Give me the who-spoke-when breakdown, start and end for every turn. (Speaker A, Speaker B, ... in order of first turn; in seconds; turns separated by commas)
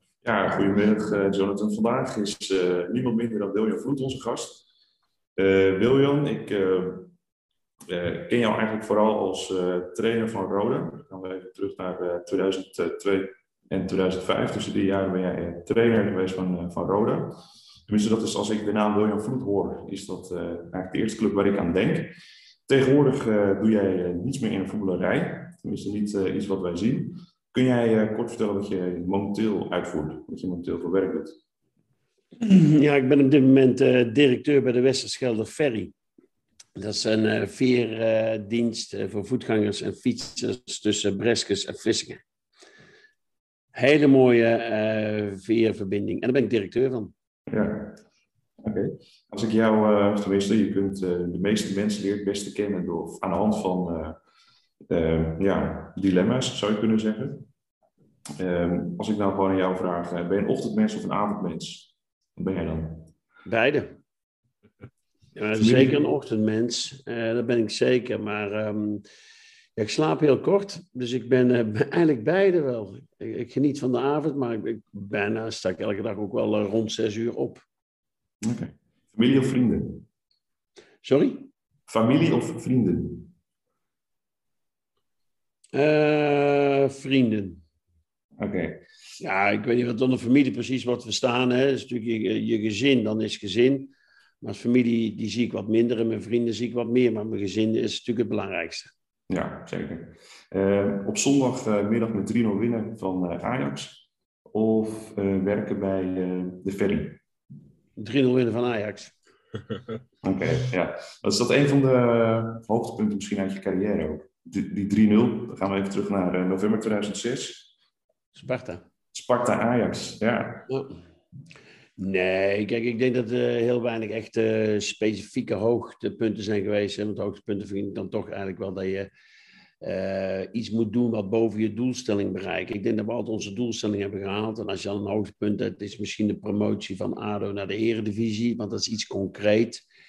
Speaker A: 0.2-4.6, Speaker A: 5.3-7.1, Speaker A: 7.9-22.1, Speaker A: 22.7-31.4, Speaker B: 32.4-35.9, Speaker B: 36.8-42.2, Speaker B: 43.7-47.1, Speaker A: 47.5-48.0, Speaker A: 48.6-54.2, Speaker A: 54.9-57.5, Speaker A: 58.4-63.1, Speaker B: 63.5-64.0, Speaker B: 65.3-69.0, Speaker A: 65.6-66.0, Speaker B: 69.8-77.6, Speaker A: 78.4-80.0, Speaker B: 81.0-81.5, Speaker A: 81.9-83.3, Speaker B: 85.7-87.6, Speaker A: 88.4-88.8, Speaker B: 89.2-98.9, Speaker A: 99.3-107.2, Speaker B: 108.0-109.1, Speaker A: 110.2-117.7, Speaker B: 118.3-118.8, Speaker A: 119.1-120.7, Speaker B: 120.7-121.0, Speaker B: 122.0-129.1, Speaker B: 129.8-139.8